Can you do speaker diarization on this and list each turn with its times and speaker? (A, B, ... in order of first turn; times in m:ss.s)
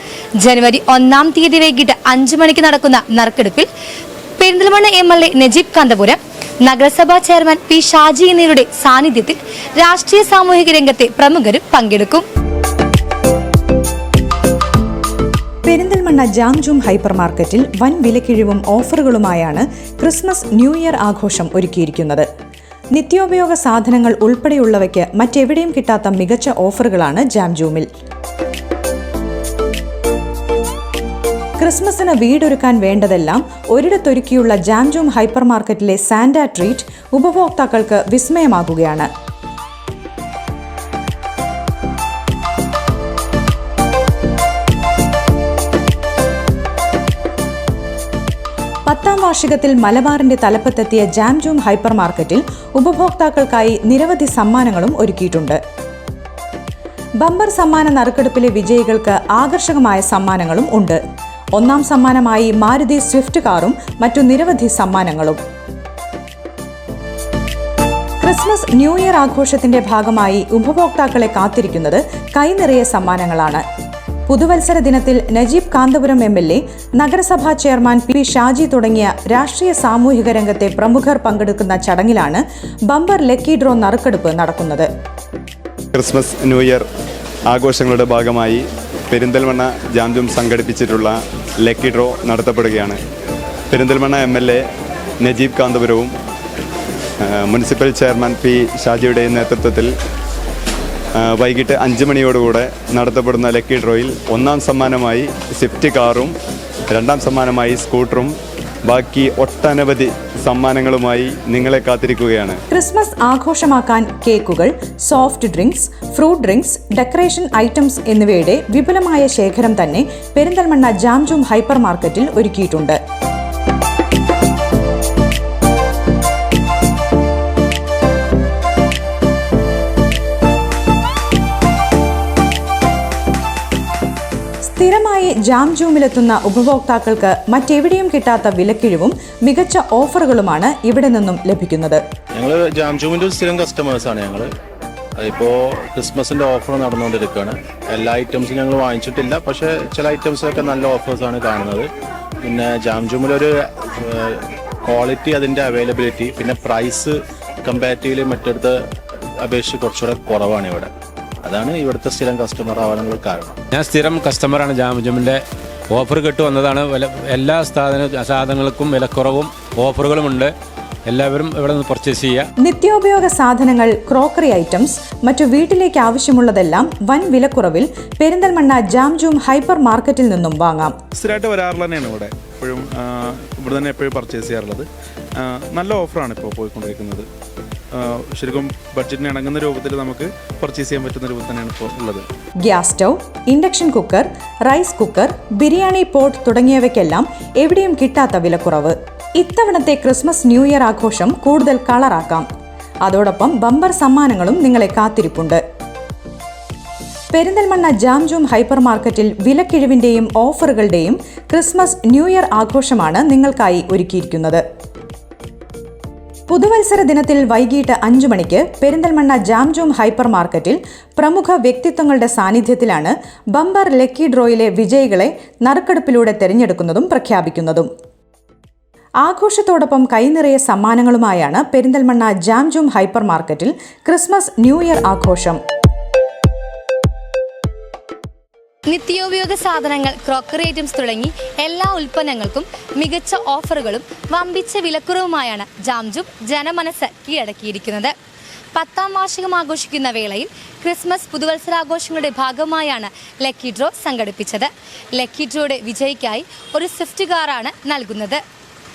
0:00.4-0:03.7 A
0:04.4-0:12.2 A
0:15.6-0:22.3 B
0:22.9-0:27.9 B
0:31.6-0:39.1 B
0:48.8-0:55.6 B
0:57.2-1:01.0 B
1:01.5-1:05.4 B
1:08.2-1:13.6 B
1:14.3-1:24.9 B
1:25.9-1:26.8 C
1:27.5-1:33.0 C
1:33.7-1:34.6 C
1:35.2-1:36.1 C
1:37.2-1:39.9 C
1:41.2-1:46.3 C
1:46.9-1:52.6 C
1:52.7-2:03.0 B
2:14.7-2:22.0 B
2:22.4-2:24.5 D
2:25.2-2:31.9 D
2:32.4-2:38.8 D
2:39.4-2:40.9 D
2:41.4-2:43.6 D
2:43.7-2:45.4 E
2:45.9-2:50.5 E
2:51.1-2:52.4 E
2:52.6-3:01.0 B
3:01.2-3:04.9 F
3:05.4-3:07.3 F
3:07.9-3:12.2 F
3:12.6-3:22.4 B
3:23.0-3:25.6 B
3:27.3-3:34.6 B
3:36.5-3:47.9 B
3:49.2-3:55.6 B
3:58.9-4:08.1 A
4:08.7-4:18.4 A